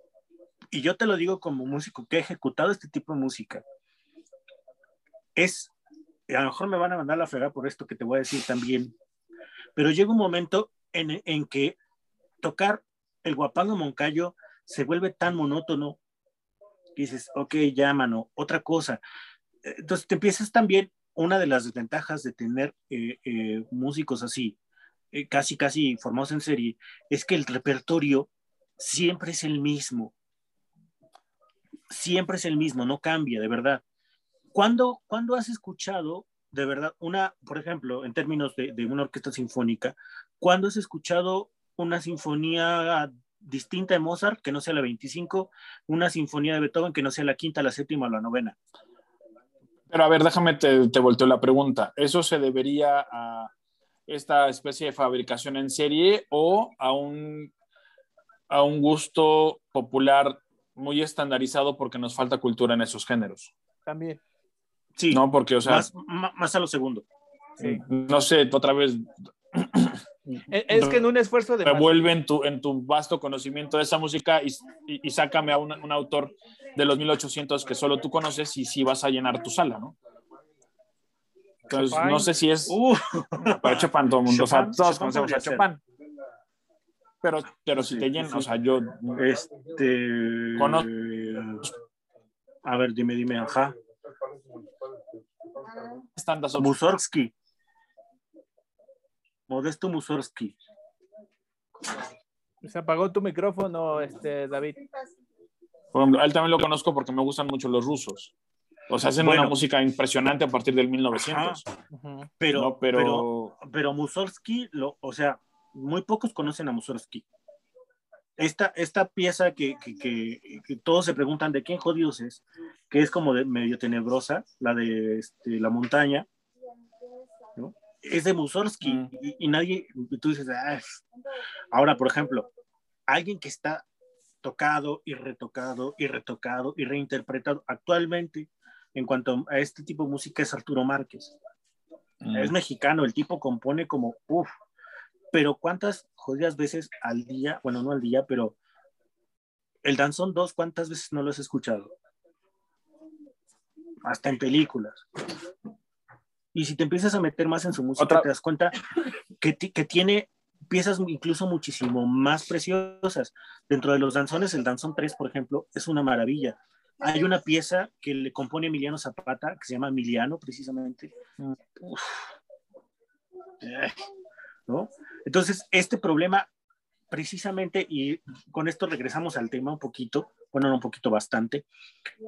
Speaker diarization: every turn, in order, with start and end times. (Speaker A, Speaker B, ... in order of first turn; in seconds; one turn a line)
Speaker A: 0.7-3.6
Speaker A: 5.3-5.7
Speaker A: 6.3-8.9
Speaker A: 9.8-11.8
Speaker A: 12.4-16.0
Speaker A: 16.9-19.0
Speaker A: 19.6-24.6
Speaker A: 25.1-30.1
Speaker A: 31.9-33.8
Speaker A: 34.5-48.6
Speaker B: 49.9-53.5
Speaker B: 54.1-57.5
Speaker B: 58.5-63.5
Speaker C: 63.9-64.2
Speaker A: 65.0-67.0
Speaker B: 65.1-65.9
Speaker B: 67.6-70.0
Speaker C: 70.5-72.1
Speaker B: 70.7-71.0
Speaker B: 71.6-79.9
Speaker B: 81.7-82.8
Speaker C: 81.7-82.3
Speaker A: 82.7-85.7
Speaker B: 83.6-85.8
Speaker B: 87.2-89.2
Speaker A: 87.7-88.5
Speaker A: 89.1-91.7
Speaker B: 90.6-90.9
Speaker A: 92.6-93.7
Speaker B: 96.2-96.7
Speaker A: 96.6-97.3
Speaker A: 99.5-100.5
Speaker C: 102.6-104.9
Speaker B: 105.9-108.3
Speaker B: 108.9-111.6
Speaker A: 109.2-109.5
Speaker A: 111.2-111.6
Speaker C: 111.9-112.3
Speaker A: 112.4-117.2
Speaker B: 112.5-113.5
Speaker A: 118.4-126.3
Speaker A: 127.5-131.0
Speaker A: 131.7-132.5
Speaker A: 133.1-133.8
Speaker A: 134.4-141.3
Speaker B: 142.2-142.5
Speaker A: 142.3-144.5
Speaker A: 145.3-148.6
Speaker A: 149.8-151.9
Speaker A: 154.0-155.0
Speaker A: 156.5-158.8
Speaker B: 158.0-158.2
Speaker A: 159.4-171.1
Speaker A: 171.8-172.3
Speaker A: 173.6-174.0
Speaker A: 174.7-176.5
Speaker A: 177.1-181.6